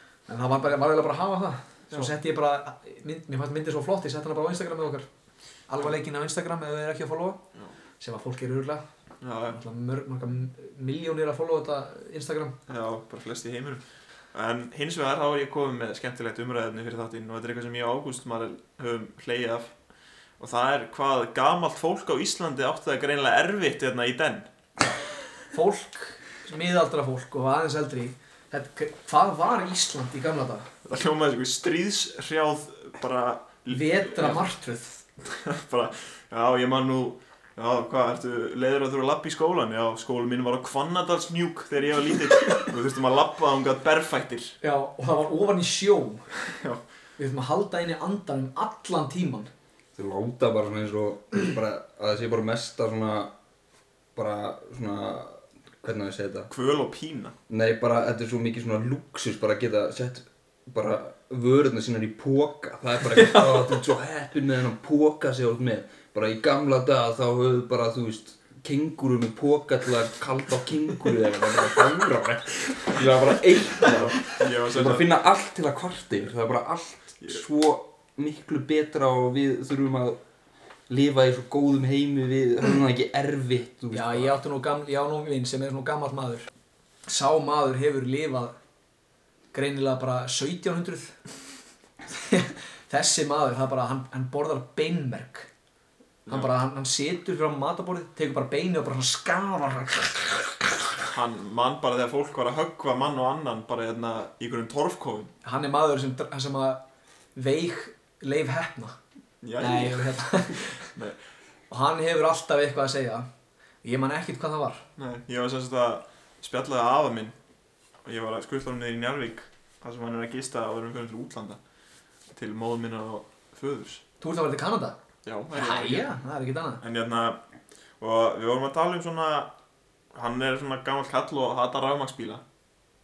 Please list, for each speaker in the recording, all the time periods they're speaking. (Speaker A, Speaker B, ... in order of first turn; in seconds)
Speaker A: 0.3-5.1, 5.7-7.4, 8.0-8.8, 9.5-12.6, 25.5-30.7, 33.7-35.0, 44.6-46.2, 47.2-49.5, 63.2-63.7, 83.9-86.5, 87.1-88.5, 89.5-91.2, 92.1-95.5, 96.3-100.6, 105.4-106.8, 107.4-109.0, 109.6-110.9, 111.7-113.3, 113.8-114.8, 124.2-125.0, 125.5-126.8
Speaker B: 9.2-9.6, 12.7-19.7, 20.4-24.5, 30.9-34.4, 35.3-44.5, 46.5-46.8, 56.5-57.3, 73.8-75.1, 96.3-96.5, 101.1-105.3, 109.4-111.2, 115.0-117.3, 118.0-121.6, 122.3-124.0, 125.2-126.1, 126.8-127.4, 128.0-129.5, 130.1-132.4
Speaker C: 50.0-53.3, 54.1-56.5, 57.5-80.2, 80.9-84.3